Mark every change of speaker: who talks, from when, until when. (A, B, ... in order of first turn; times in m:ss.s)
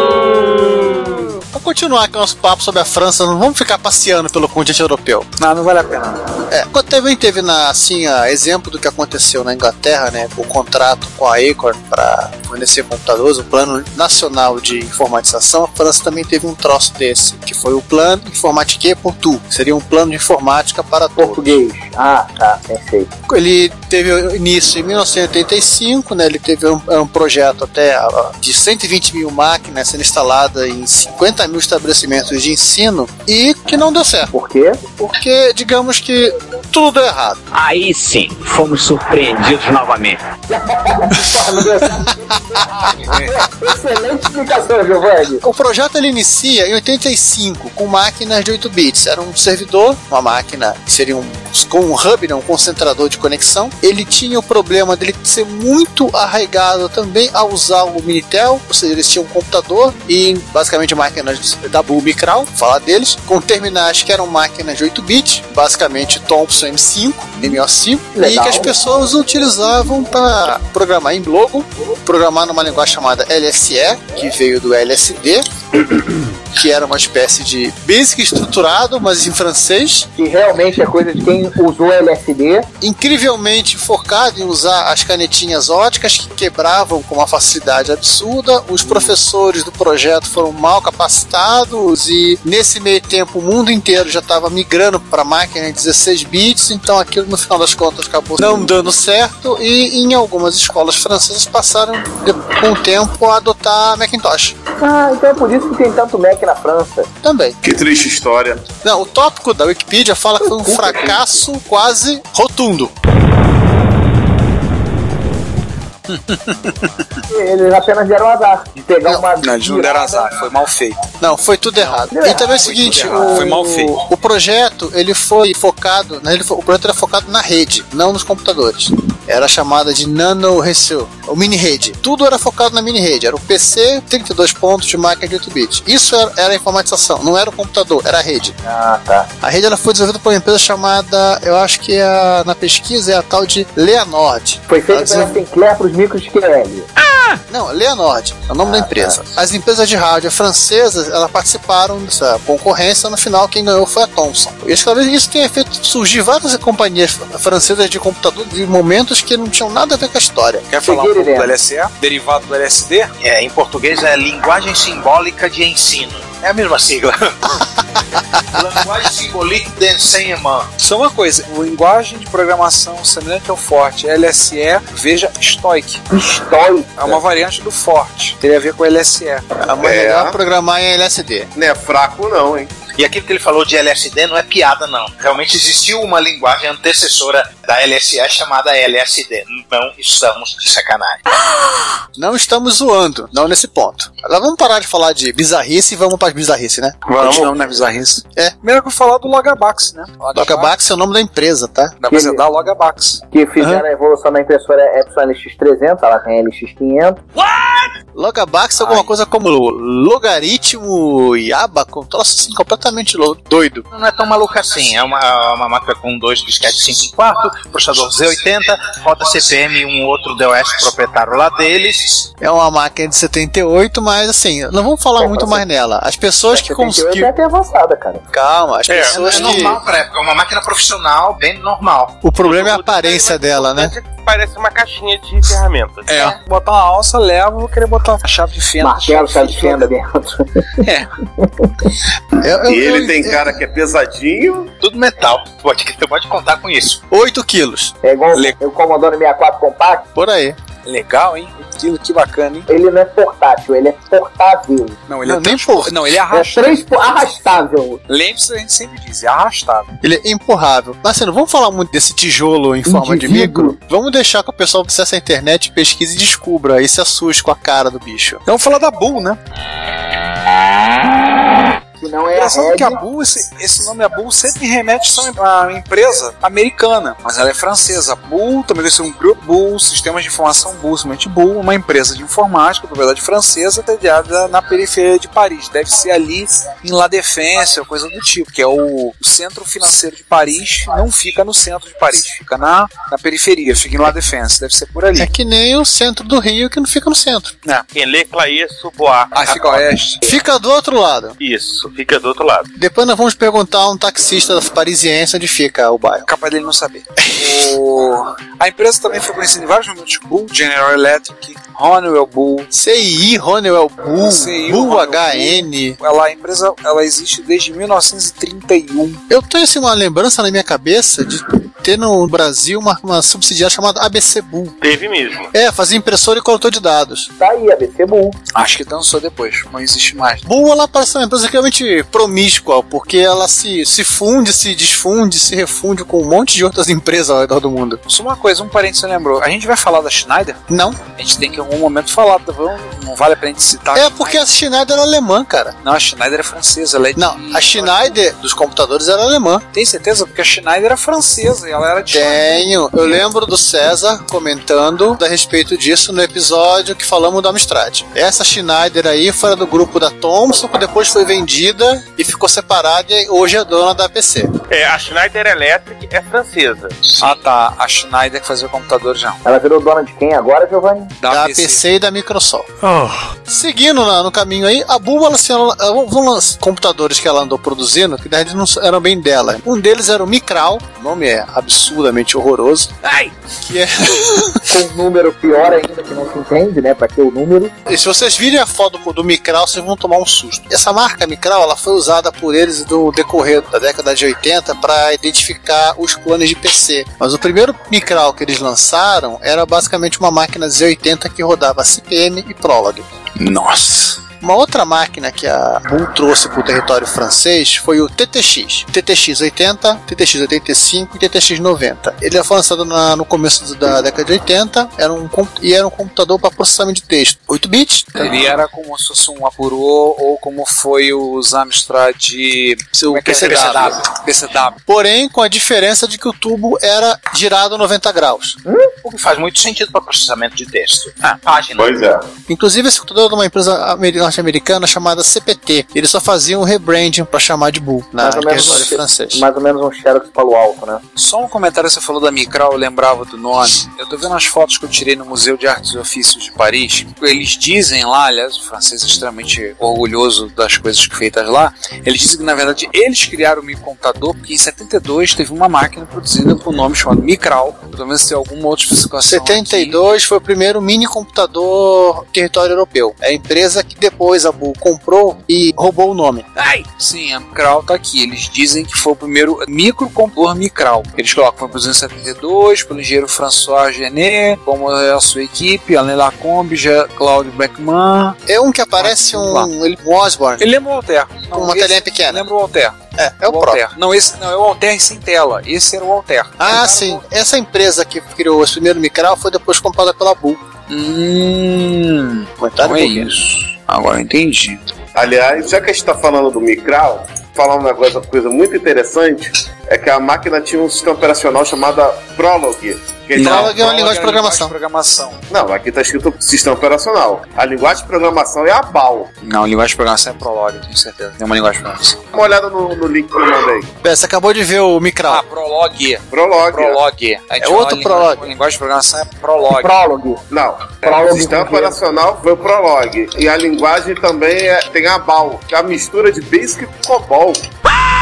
0:01.3-0:05.3 A
0:05.4-0:06.2 B
0:06.5-0:21.6 A
0:21.2-0:23.1 C
0:23.3-0:34.3 A
0:34.3-0:34.9 C
0:35.0-0:37.4 A
0:37.5-0:40.2 D
0:40.5-0:45.4 C
0:42.5-0:42.9 A
0:45.4-1:15.4 A
1:08.2-1:08.7 C
1:16.0-1:20.1 A
1:20.2-1:22.7 C
1:22.8-1:44.6 A
1:44.8-1:47.1 C
1:47.2-1:47.6 A
1:47.6-1:48.7 E
1:48.8-1:52.9 A
1:50.4-1:51.4 C
1:56.1-1:57.0 B
1:57.3-2:00.3 C
1:59.4-2:01.0 B
2:01.2-2:18.5 A
2:02.1-2:03.6 C
2:02.7-2:04.0 B
2:18.6-2:19.3 C
2:19.4-2:25.4 A
2:24.7-2:26.9 C
2:27.5-2:40.7 A
2:28.6-2:29.3 C
2:40.7-2:43.1 B
2:40.8-2:41.5 C
2:43.2-2:47.7 F
2:48.5-2:50.7 F
2:50.8-2:56.0 B
2:56.1-2:57.2 C
2:57.0-2:59.4 B
2:59.6-3:01.5 A
2:59.8-3:00.4 E
3:01.5-3:02.7 E
3:02.9-3:11.2 F
3:12.2-3:17.0 A
3:17.1-3:20.7 B
3:17.1-3:17.5 G
3:20.3-3:22.0 A
3:22.0-3:23.2 B
3:22.1-3:22.4 C
3:23.3-3:27.2 C
3:23.6-3:23.8 A
3:27.4-3:27.9 B
3:28.1-3:33.8 A
3:28.8-3:29.1 B
3:33.9-3:42.3 F
3:42.4-3:47.3 A
3:45.2-3:45.6 C
3:46.5-3:48.2 C
3:48.3-3:49.8 A
3:48.9-3:49.2 G
3:49.1-3:52.2 F
3:52.2-3:53.9 A
3:52.4-3:56.3 G
3:56.1-3:59.8 B
3:58.8-4:00.7 C
4:00.8-4:01.1 B
4:01.4-4:01.9 C
4:02.4-4:03.5 A
4:02.6-4:04.7 E
4:04.8-4:07.0 F
4:07.1-4:07.9 A
4:08.0-4:10.1 C
4:10.2-4:10.6 A
4:10.8-4:12.7 B
4:12.7-4:15.0 C
4:15.1-4:16.8 B
4:15.2-4:16.2 A
4:16.3-4:18.0 C
4:18.1-4:19.9 B
4:20.0-4:28.4 A
4:22.9-4:23.8 C
4:28.4-4:29.4 B
4:32.0-4:33.0 C
4:32.3-4:55.3 B
4:55.2-4:57.5 A
4:57.9-4:59.8 G
4:59.3-5:00.2 B
5:00.2-5:01.4 A
5:01.4-5:02.7 G
5:02.8-5:06.3 A
5:06.2-5:12.7 B
5:07.2-5:07.7 A
5:12.7-5:16.0 A
5:14.2-5:19.2 B
5:19.3-5:24.8 A
5:24.8-5:25.5 G
5:25.5-5:27.3 A
5:27.4-5:28.4 C
5:28.5-5:30.4 B
5:30.4-5:38.0 A
5:38.1-5:40.6 B
5:40.7-5:41.0 A
5:41.2-5:44.4 B
5:43.9-5:45.8 A
5:45.8-5:48.2 B
5:47.2-5:49.6 A
5:49.7-5:52.7 B
5:52.1-6:04.5 A
6:04.7-6:07.0 G
6:07.2-6:09.4 B
6:09.4-6:11.1 C
6:11.2-6:11.8 B
6:11.3-6:12.7 A
6:13.4-6:24.6 A
6:24.7-6:27.8 C
6:27.9-6:43.1 A
6:43.4-6:44.2 B
6:44.4-6:58.2 A
6:58.2-7:04.8 B
7:02.9-7:04.0 A
7:03.4-7:03.7 F
7:04.9-7:08.6 A
7:09.0-7:11.9 F
7:11.7-7:12.2 E
7:12.5-7:19.4 A
7:18.2-7:21.0 C
7:21.2-7:40.0 B
7:39.2-7:46.5 A
7:46.6-7:58.4 B
7:58.5-8:00.7 A
7:59.0-7:59.7 B
8:00.6-8:07.2 B
8:01.5-8:02.4 A
8:03.2-8:03.8 A
8:06.6-8:10.6 A
8:10.9-8:14.8 B
8:12.6-8:13.4 A
8:15.1-8:23.8 E
8:23.4-8:25.4 B
8:23.4-8:24.7 A
8:25.5-8:29.3 E
8:29.4-8:32.2 B
8:32.3-8:33.9 E
8:34.0-8:35.4 A
8:35.3-8:40.0 B
8:36.3-8:37.0 E
8:37.6-8:38.5 A
8:39.8-8:40.4 C
8:40.5-8:47.7 E
8:41.0-8:42.0 C